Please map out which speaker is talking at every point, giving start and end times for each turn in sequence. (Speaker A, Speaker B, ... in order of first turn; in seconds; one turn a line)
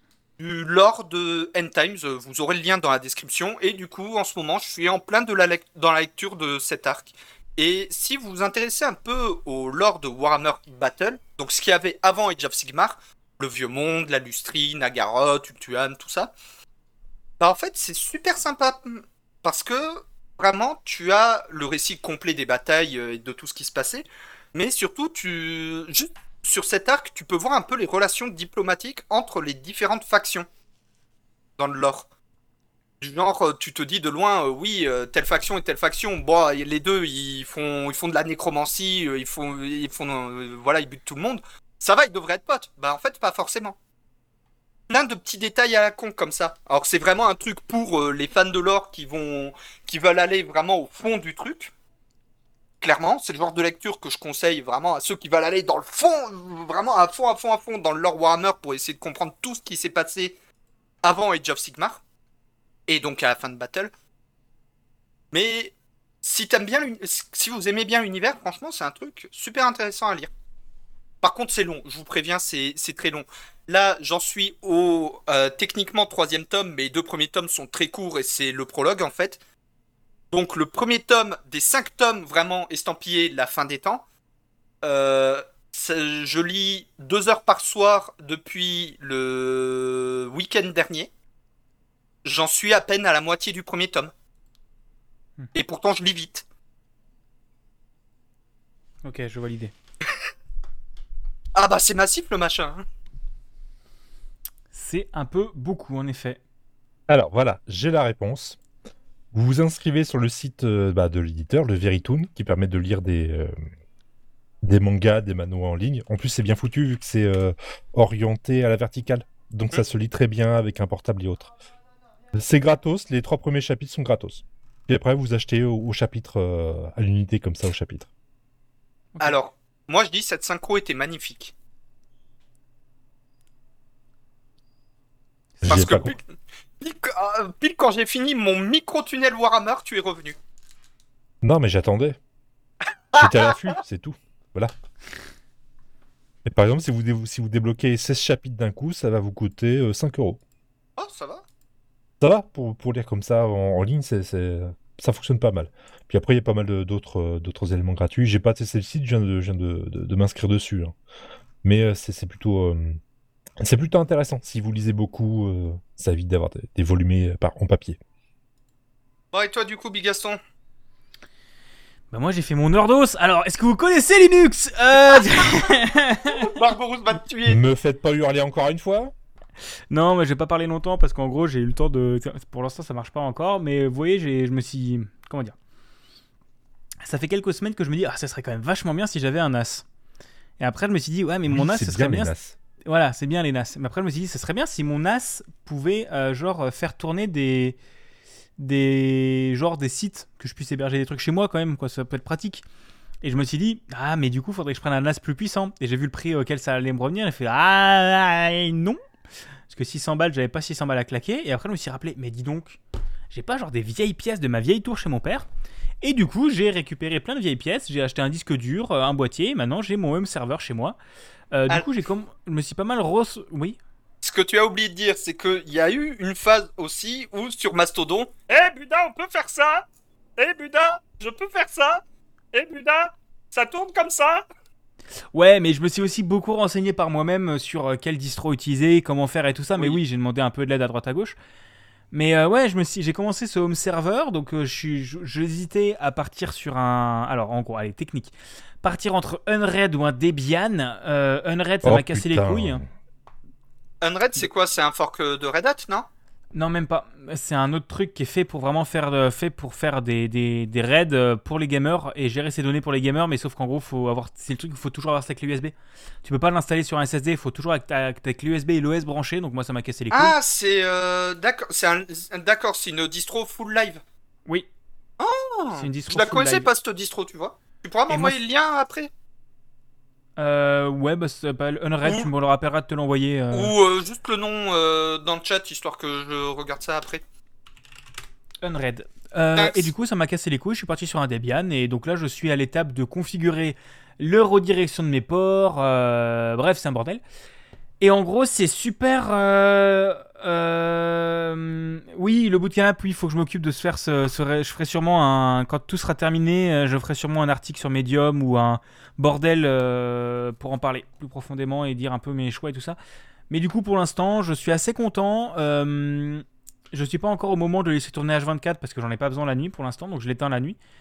Speaker A: 0.4-16.3
Speaker A: 17.4-30.5
Speaker A: 31.6-32.0
Speaker A: 33.0-43.8
Speaker A: 44.9-51.7
Speaker A: 52.8-60.3
Speaker A: 61.0-62.0
Speaker A: 62.9-63.9
Speaker A: 65.3-70.3
Speaker A: 71.2-79.4
Speaker A: 80.3-84.0
Speaker A: 84.8-91.1
Speaker A: 92.2-94.1
Speaker A: 95.5-96.4
Speaker B: 99.0-99.7
Speaker A: 101.5-102.8
Speaker B: 104.7-106.4
Speaker C: 107.1-108.6
Speaker C: 109.3-113.5
Speaker C: 114.6-121.5
Speaker C: 122.3-128.1
Speaker A: 129.2-131.5
Speaker C: 135.6-136.1
Speaker A: 135.7-136.2
Speaker A: 136.8-140.3
Speaker C: 141.4-142.2
Speaker A: 143.1-143.8
Speaker C: 143.1-144.7
Speaker C: 146.4-150.4
Speaker A: 151.0-151.4
Speaker C: 152.2-160.9
Speaker C: 161.6-163.0
Speaker C: 163.6-168.0
Speaker A: 169.3-170.4
Speaker B: 172.1-176.5
Speaker A: 176.3-177.6
Speaker C: 177.4-179.1
Speaker B: 179.9-185.5
Speaker B: 187.0-189.8
Speaker B: 190.6-192.3
Speaker C: 191.5-192.6
Speaker B: 192.8-197.8
Speaker B: 198.6-202.6
Speaker B: 203.2-209.0
Speaker B: 209.7-212.8
Speaker B: 213.3-215.4
Speaker B: 216.0-221.0
Speaker B: 221.5-223.8
Speaker A: 224.2-229.8
Speaker A: 230.4-232.0
Speaker A: 232.5-234.4
Speaker B: 235.3-241.3
Speaker B: 242.1-252.8
Speaker C: 251.8-252.9
Speaker A: 254.0-256.1
Speaker B: 256.5-270.3
Speaker A: 270.1-274.0
Speaker A: 275.2-279.1
Speaker B: 275.7-276.7
Speaker B: 278.1-278.4
Speaker B: 280.4-283.7
Speaker A: 282.0-282.3
Speaker A: 283.5-287.2
Speaker B: 288.6-297.2
Speaker A: 289.6-289.9
Speaker B: 298.0-313.0
Speaker B: 313.5-320.8